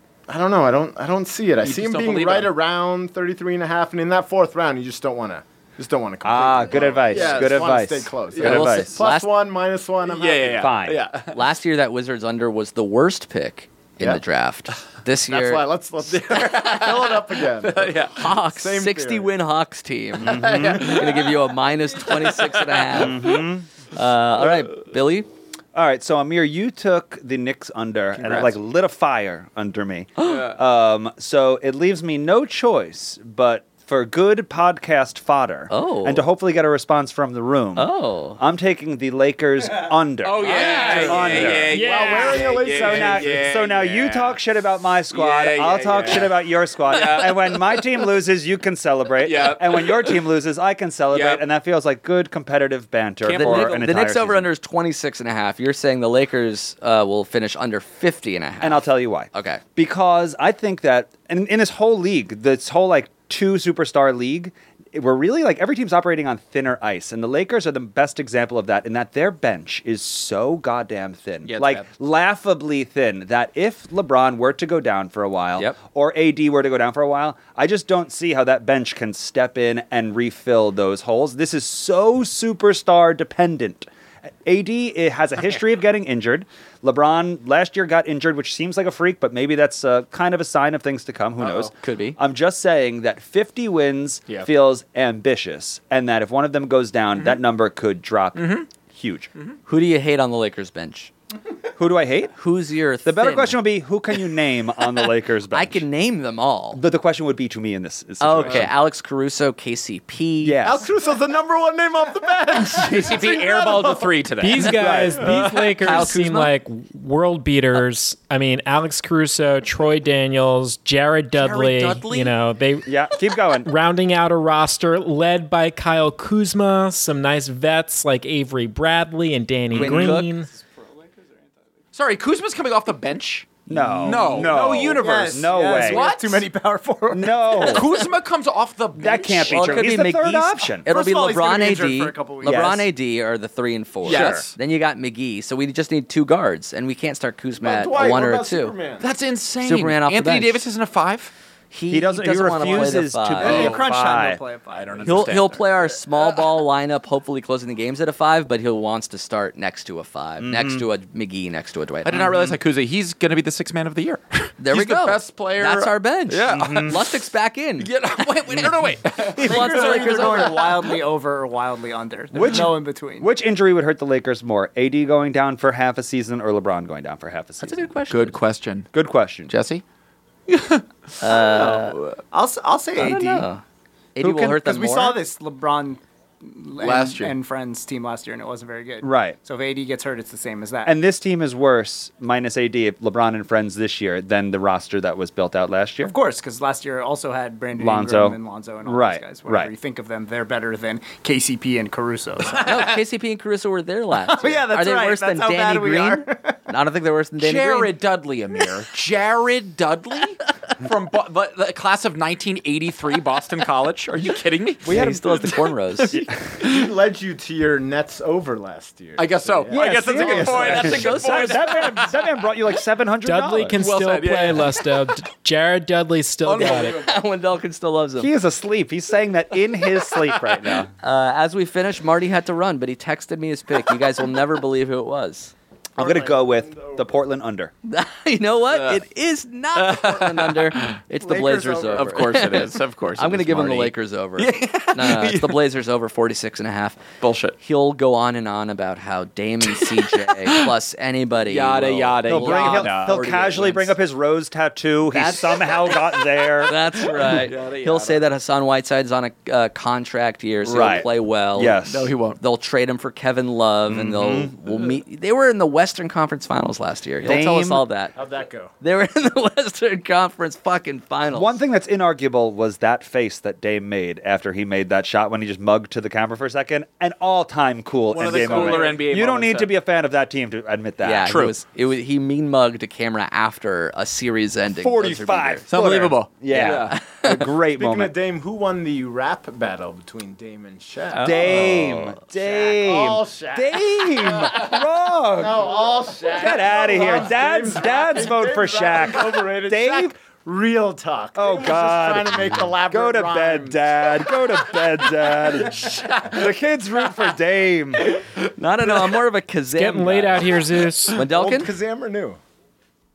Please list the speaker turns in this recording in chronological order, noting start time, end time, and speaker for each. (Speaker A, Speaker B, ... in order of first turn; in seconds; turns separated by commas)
Speaker A: 0.3-10.7, Speaker B: 1.6-2.5, Speaker C: 6.2-9.0, Speaker B: 6.8-7.7, Speaker D: 8.4-9.3, Speaker B: 10.1-11.3, Speaker C: 10.6-11.0, Speaker D: 11.3-15.7, Speaker A: 15.3-19.3, Speaker B: 16.1-18.3, Speaker D: 18.0-23.4, Speaker C: 20.2-21.0, Speaker B: 20.5-21.3, Speaker B: 22.0-22.8, Speaker C: 22.9-23.7, Speaker D: 23.9-25.3, Speaker C: 25.7-41.9, Speaker B: 28.2-28.5, Speaker B: 30.2-30.5, Speaker D: 35.7-36.2, Speaker D: 37.8-38.4, Speaker B: 40.2-44.4, Speaker D: 40.8-41.4, Speaker E: 41.7-42.4, Speaker A: 41.8-43.4, Speaker C: 42.4-54.5, Speaker B: 45.1-48.0, Speaker B: 49.2-50.3, Speaker B: 51.1-51.4, Speaker B: 53.2-53.9, Speaker D: 53.3-59.6, Speaker C: 58.6-83.9, Speaker B: 71.4-71.9, Speaker C: 84.4-99.3, Speaker B: 91.4-91.7, Speaker D: 91.7-92.2, Speaker B: 98.3-98.7, Speaker D: 99.7-101.1, Speaker C: 101.8-102.3, Speaker D: 102.3-103.6, Speaker C: 103.0-105.8, Speaker D: 105.5-106.8, Speaker C: 106.7-108.7, Speaker D: 108.2-110.6, Speaker C: 110.4-110.8, Speaker A: 110.6-114.2, Speaker B: 112.5-116.1, Speaker E: 114.4-130.5, Speaker C: 114.7-115.2, Speaker D: 115.8-116.5, Speaker D: 121.3-122.3, Speaker C: 122.8-123.7, Speaker C: 129.7-130.3, Speaker D: 129.7-130.2, Speaker F: 130.6-131.2, Speaker B: 131.9-136.5, Speaker C: 133.7-136.2, Speaker F: 134.3-138.0, Speaker C: 137.1-137.9, Speaker B: 137.6-139.9, Speaker C: 139.0-140.9, Speaker D: 139.4-148.7, Speaker F: 140.6-142.8, Speaker C: 142.4-142.8, Speaker C: 144.0-144.5, Speaker B: 144.0-144.5, Speaker A: 147.6-149.1, Speaker B: 149.0-151.3, Speaker D: 149.6-150.6, Speaker D: 151.7-153.7, Speaker C: 151.9-154.4, Speaker F: 153.4-155.6, Speaker B: 153.4-153.9, Speaker B: 154.7-155.5, Speaker D: 155.0-162.6, Speaker B: 156.2-156.5, Speaker C: 160.4-160.8, Speaker B: 162.0-167.0, Speaker D: 164.6-170.8, Speaker C: 166.5-167.0, Speaker B: 167.8-170.3, Speaker F: 169.4-173.3, Speaker C: 172.3-177.9, Speaker D: 177.6-178.4, Speaker B: 178.1-178.9, Speaker C: 178.9-179.5, Speaker B: 179.5-179.8, Speaker B: 180.5-180.8, Speaker D: 181.2-182.0, Speaker B: 181.3-182.2, Speaker F: 181.5-181.8, Speaker F: 182.3-183.5, Speaker D: 182.9-183.6, Speaker D: 184.2-185.2, Speaker F: 184.3-190.9, Speaker B: 186.8-187.3, Speaker C: 189.0-189.4, Speaker C: 190.8-196.1, Speaker F: 196.0-203.0, Speaker C: 197.7-199.7, Speaker D: 202.6-207.9, Speaker F: 204.1-206.6, Speaker B: 207.4-214.8, Speaker C: 214.8-216.6, Speaker D: 214.8-216.3, Speaker A: 216.6-221.1, Speaker B: 219.2-222.2, Speaker C: 219.7-223.8, Speaker D: 220.4-221.9, Speaker E: 223.2-227.1, Speaker B: 223.8-224.9, Speaker B: 226.4-227.2, Speaker D: 226.5-228.3, Speaker C: 228.2-230.9, Speaker B: 230.3-230.8, Speaker D: 231.0-235.5, Speaker A: 236.0-237.2, Speaker C: 236.0-237.7, Speaker D: 237.8-247.0, Speaker B: 238.7-239.0, Speaker B: 239.7-241.0, Speaker A: 241.2-242.2, Speaker B: 241.7-245.6, Speaker B: 247.2-247.6, Speaker D: 247.6-253.9, Speaker B: 249.7-250.7, Speaker B: 251.4-253.4, Speaker C: 252.2-256.8, Speaker D: 255.1-261.7, Speaker B: 256.9-258.2, Speaker C: 260.6-262.1, Speaker B: 261.9-262.4, Speaker D: 262.4-268.1, Speaker C: 263.9-264.5, Speaker C: 267.2-267.9, Speaker A: 268.1-268.7, Speaker D: 268.8-271.6, Speaker C: 271.3-281.4, Speaker B: 278.1-279.7, Speaker D: 281.0-285.6, Speaker B: 281.2-281.5, Speaker C: 284.7-288.1, Speaker B: 285.7-287.0, Speaker D: 286.5-287.5, Speaker A: 287.8-294.8, Speaker D: 291.1-291.5, Speaker C: 291.2-300.1, Speaker A: 295.3-304.1, Speaker C: 301.3-308.1, Speaker B: 305.8-306.3, Speaker D: 308.4-311.7, Speaker E: 309.7-311.2, Speaker A: 311.3-312.4